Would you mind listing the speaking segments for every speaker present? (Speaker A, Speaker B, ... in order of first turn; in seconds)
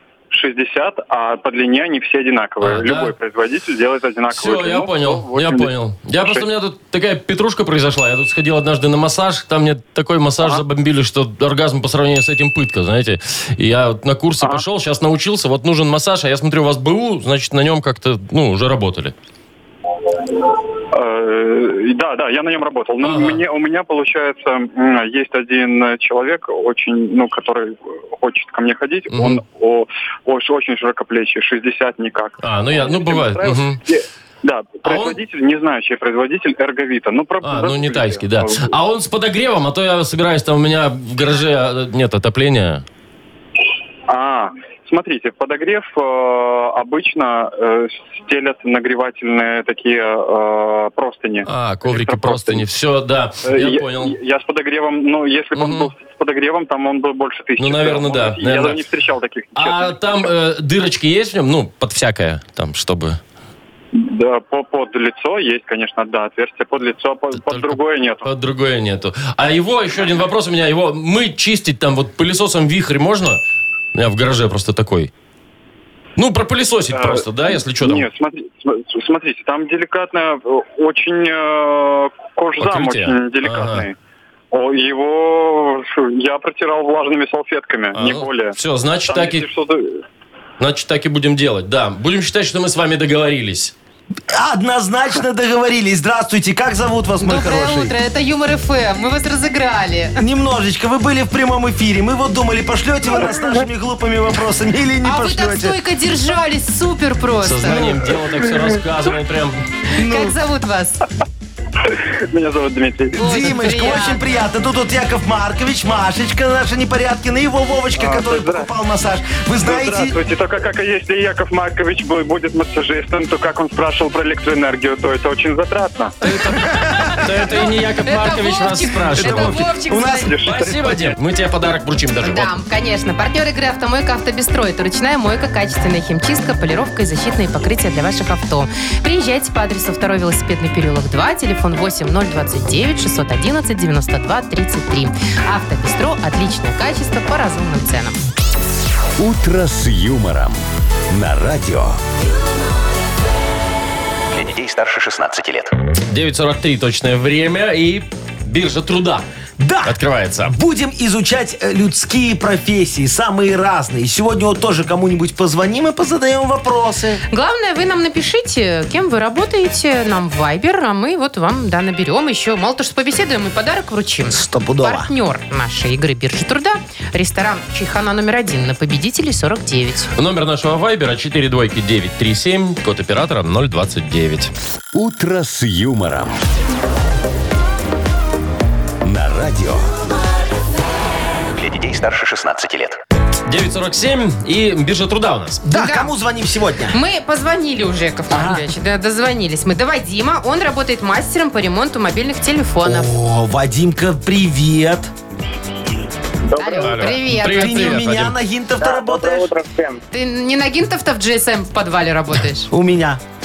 Speaker A: 0.3-6.5, 20.9-38.7, 44.1-52.7, 53.4-60.3, 63.9-68.3, 76.9-83.9, 84.5-90.0, 111.9-113.2, 118.0-118.7, 119.6-126.1, 130.2-131.1
Speaker B: 2.6-3.1, 4.3-19.1, 23.0-23.4, 29.1-29.4, 32.4-33.8, 34.8-35.2, 37.4-42.8, 51.5-54.1, 55.5-55.9, 57.6-58.8, 59.5-63.2, 67.3-73.4, 73.9-75.1, 76.2-78.1, 82.6-83.9, 87.9-89.5, 90.6-93.7, 107.4-109.6, 126.2-129.6, 130.4-132.5, 156.1-159.2, 159.8-160.6, 180.2-184.5, 193.5-195.6, 206.8-208.3
Speaker C: 94.3-97.9, 100.2-105.8, 107.7-108.1, 109.9-110.3, 113.1-120.2, 126.6-127.0, 129.1-130.4, 159.6-167.2, 174.3-175.1, 195.7-197.0, 198.3-198.6, 202.8-205.1, 207.3-209.5, 212.7-213.2
Speaker D: 97.2-100.2, 105.0-107.9, 109.9-111.0, 113.2-114.2, 126.8-130.3, 132.2-148.2, 167.3-180.1, 195.7-196.1, 196.9-203.1, 206.6-208.0, 210.1-212.7
Speaker E: 149.2-152.0, 184.9-186.4, 189.0-189.9
Speaker F: 154.3-155.7, 191.5-193.0
Speaker G: 206.5-207.2, 208.8-210.0